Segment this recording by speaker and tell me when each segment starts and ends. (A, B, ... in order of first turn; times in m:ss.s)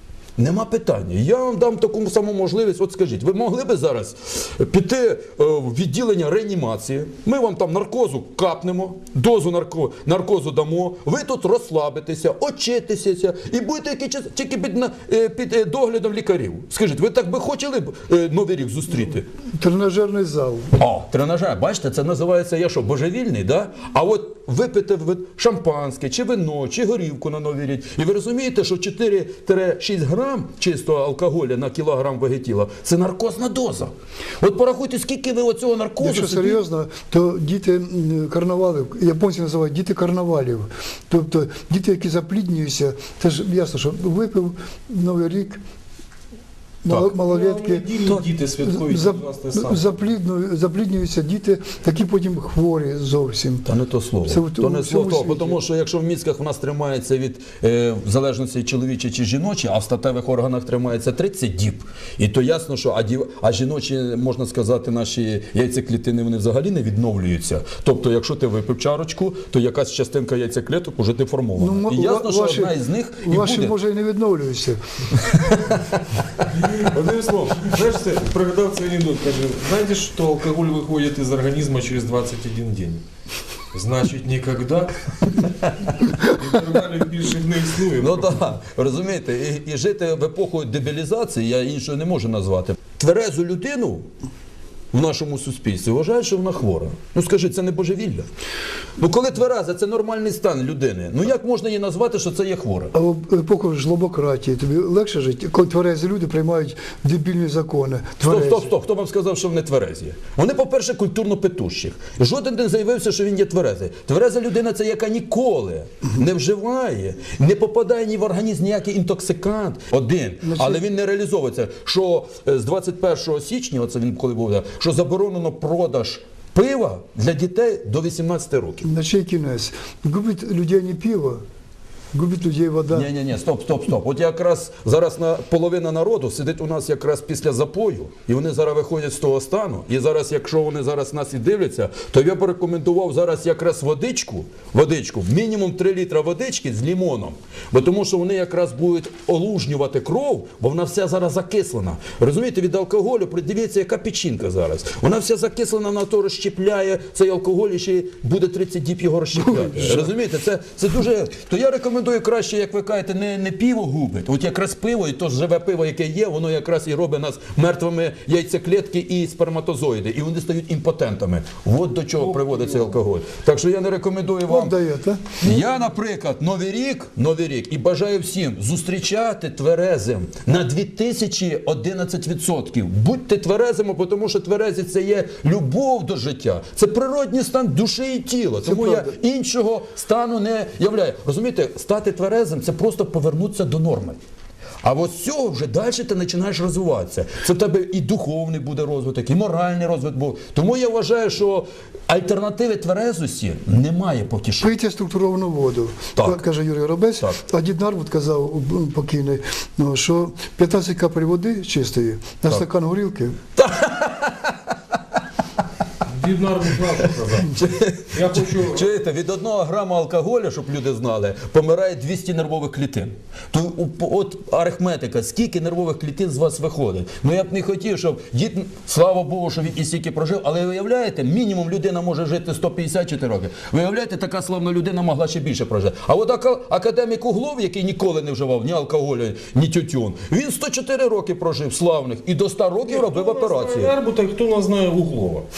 0:00.4-0:19.2 A
0:19.6-0:20.8 B
0:20.8-0:36.6 A
0:36.0-0:45.6 B
0:46.8-0:47.9 B
0:47.2-0:49.8 C
0:48.6-0:53.7 B
0:53.7-1:13.8 A
0:54.3-0:55.6 B
1:11.6-1:14.8 B
1:16.5-1:23.0 C
1:23.7-1:25.5 C
1:26.1-1:28.4 C
1:28.0-1:34.0 A
1:34.9-1:38.3 A
1:39.0-1:42.9 A
1:42.9-1:48.7 B
1:48.2-2:08.8 A
2:00.4-2:00.8 B
2:08.8-2:11.4 B
2:12.1-2:13.1 B
2:12.9-2:54.8 A
2:39.4-2:40.1 B
2:52.2-2:53.0 C
2:54.5-2:55.4 B
2:55.4-3:14.2 A
3:08.6-3:09.2 B
3:14.8-3:24.7 A
3:24.6-3:33.4 B
3:26.2-3:26.4 A
3:33.6-3:34.6 A
3:36.1-3:37.6 C
3:37.5-4:03.9 A
3:38.1-3:38.9 C
4:02.8-4:05.5 C